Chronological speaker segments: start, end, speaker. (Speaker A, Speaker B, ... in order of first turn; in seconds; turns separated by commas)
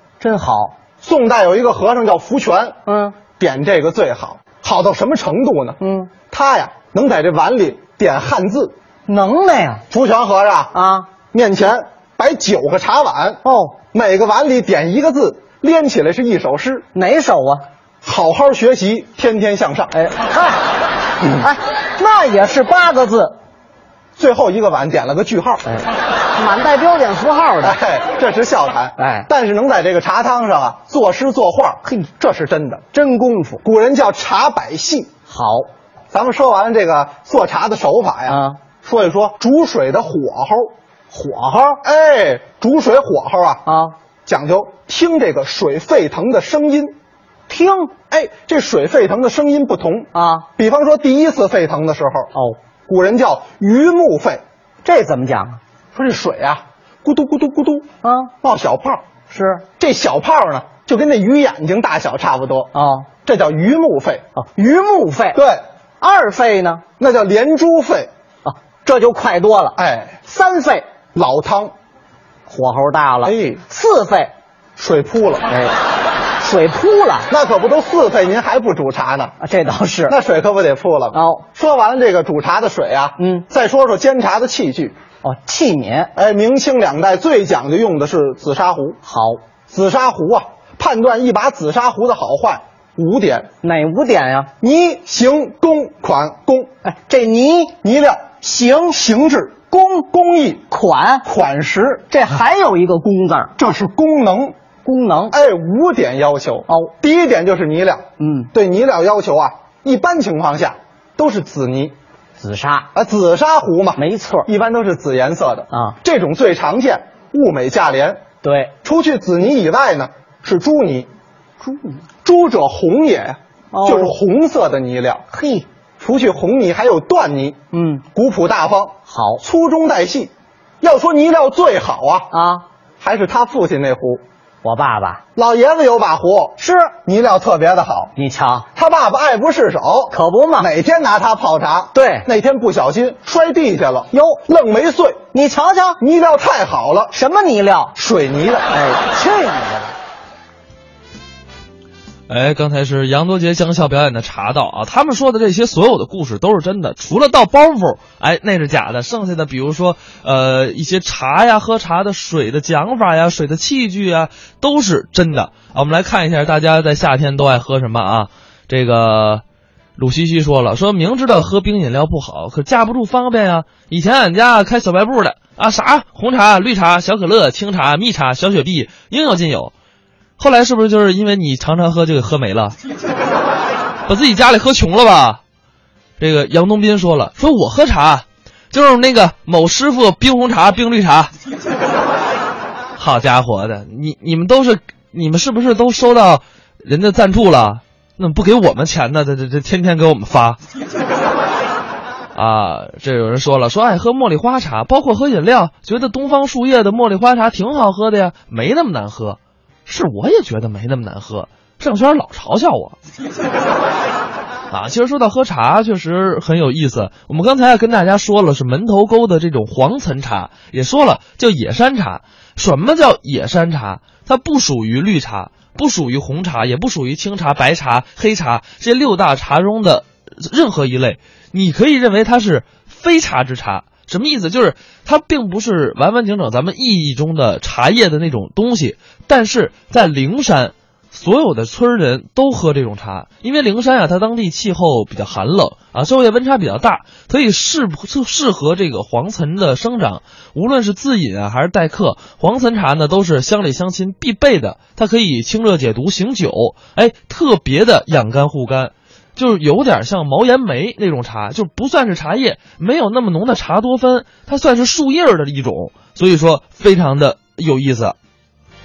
Speaker A: 0.2-0.8, Speaker B: 1.0-2.8, Speaker A: 2.9-3.2, Speaker B: 3.4-8.7, Speaker A: 5.8-6.1, Speaker A: 9.1-9.8, Speaker B: 9.9-10.8, Speaker A: 10.7-11.1, Speaker B: 11.3-16.9, Speaker A: 13.4-13.8, Speaker A: 16.9-17.6, Speaker B: 18.0-19.9, Speaker A: 19.9-20.6, Speaker A: 21.4-23.4, Speaker B: 24.2-25.6, Speaker A: 25.7-27.8, Speaker B: 27.6-33.0, Speaker A: 29.0-29.3, Speaker A: 33.0-33.6, Speaker B: 33.6-35.1, Speaker A: 35.3-35.7, Speaker B: 36.1-40.7, Speaker A: 38.3-38.6, Speaker A: 41.1-41.8, Speaker B: 41.8-43.6, Speaker A: 43.7-44.0, Speaker B: 44.3-47.0, Speaker A: 47.5-47.9, Speaker B: 48.1-52.3, Speaker A: 50.1-50.5, Speaker B: 52.9-54.4, Speaker A: 54.8-55.6, Speaker B: 55.9-57.9, Speaker A: 58.0-58.3, Speaker B: 58.4-59.0, Speaker A: 59.3-59.6, Speaker B: 59.8-64.3, Speaker A: 62.7-63.1, Speaker A: 64.4-65.4, Speaker B: 65.3-65.6, Speaker A: 66.0-66.8, Speaker B: 67.0-68.1, Speaker A: 68.5-69.8, Speaker B: 69.8-70.2, Speaker A: 70.3-70.9, Speaker B: 71.2-71.7, Speaker A: 72.5-74.3, Speaker B: 73.2-73.6, Speaker B: 74.8-75.5, Speaker A: 75.5-75.8, Speaker A: 76.4-77.3, Speaker B: 77.3-79.3, Speaker A: 79.4-80.2, Speaker B: 80.1-85.0, Speaker A: 81.1-81.4, Speaker A: 83.2-83.4, Speaker A: 85.2-86.1, Speaker B: 86.2-89.0, Speaker A: 89.0-89.4, Speaker B: 89.7-93.5, Speaker A: 93.6-94.5, Speaker B: 94.6-96.7, Speaker A: 96.8-97.8, Speaker B: 97.8-98.4, Speaker A: 98.4-99.0, Speaker B: 98.9-100.7, Speaker A: 99.7-100.0, Speaker A: 100.7-101.2, Speaker B: 101.2-102.0, Speaker A: 102.1-103.5, Speaker B: 103.6-104.6, Speaker A: 104.8-105.3, Speaker B: 105.3-111.9, Speaker A: 108.2-108.5, Speaker A: 112.4-112.9, Speaker B: 112.9-118.2, Speaker A: 114.0-114.5, Speaker A: 118.4-118.7, Speaker B: 118.8-121.1, Speaker A: 121.6-122.0, Speaker B: 122.2-125.2, Speaker A: 123.7-124.1, Speaker A: 125.3-125.7, Speaker B: 126.0-127.6, Speaker A: 127.7-128.0, Speaker B: 128.1-132.3, Speaker A: 129.1-129.4, Speaker A: 132.3-132.7, Speaker B: 133.0-134.2, Speaker A: 134.6-135.2, Speaker B: 135.4-138.1, Speaker A: 138.2-138.7, Speaker B: 138.8-145.3, Speaker A: 140.1-140.7, Speaker A: 141.9-142.3, Speaker A: 144.1-144.4, Speaker A: 145.3-146.0, Speaker B: 146.0-147.2, Speaker A: 147.1-147.9, Speaker B: 148.0-148.8, Speaker A: 148.7-149.9, Speaker C: 152.3-169.4, Speaker C: 170.0-179.7, Speaker C: 180.4-182.8, Speaker C: 184.1-185.4, Speaker C: 186.2-191.3, Speaker C: 193.0-200.6, Speaker C: 202.3-213.0, Speaker C: 214.7-268.2